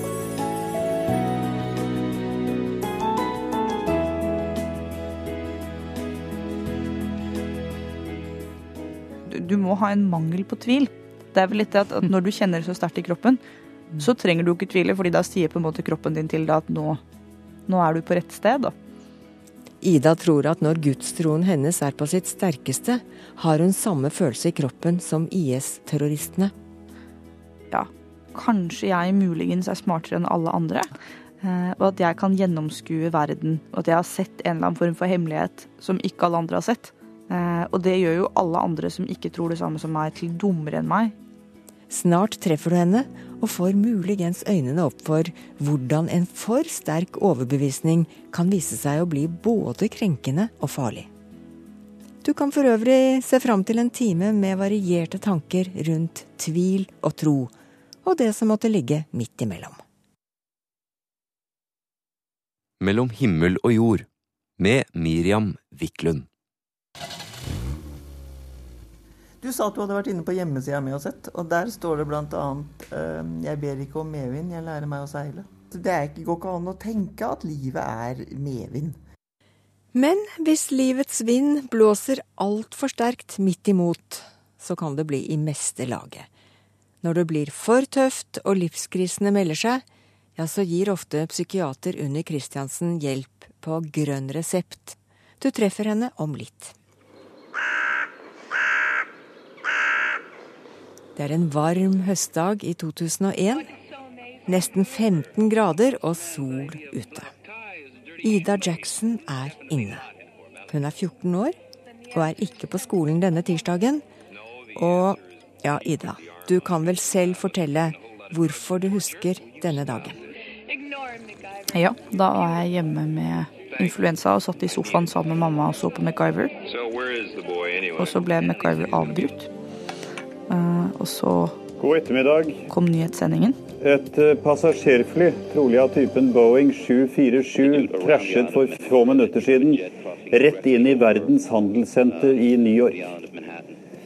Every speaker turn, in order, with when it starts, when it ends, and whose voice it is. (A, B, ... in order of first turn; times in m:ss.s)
0:09.2-0:13.4 A
0:14.0-0:17.0 A
0:17.7-0:18.7 A
0:19.8-0:26.5 B
0:27.7-0:30.9 A
0:31.4-0:41.1 A
0:41.9-0:51.1 B
0:52.2-0:57.5 B
0:58.0-0:59.8 B
1:02.8-1:04.1 C
1:04.6-1:06.3 C
1:09.4-1:19.0 D
1:19.9-1:26.3 B
1:27.0-1:29.8 B
1:30.4-1:36.7 B
1:41.2-1:43.7 B
1:44.4-1:47.3 B
1:48.2-1:50.0 B
1:50.7-1:51.6 B
1:52.1-1:54.0 B
1:54.7-2:00.2 B
2:01.7-2:06.5 A
2:08.0-2:09.5 A
2:10.5-2:11.6 A
2:11.8-2:12.6 E
2:12.7-2:13.6 A
2:13.8-2:23.1 E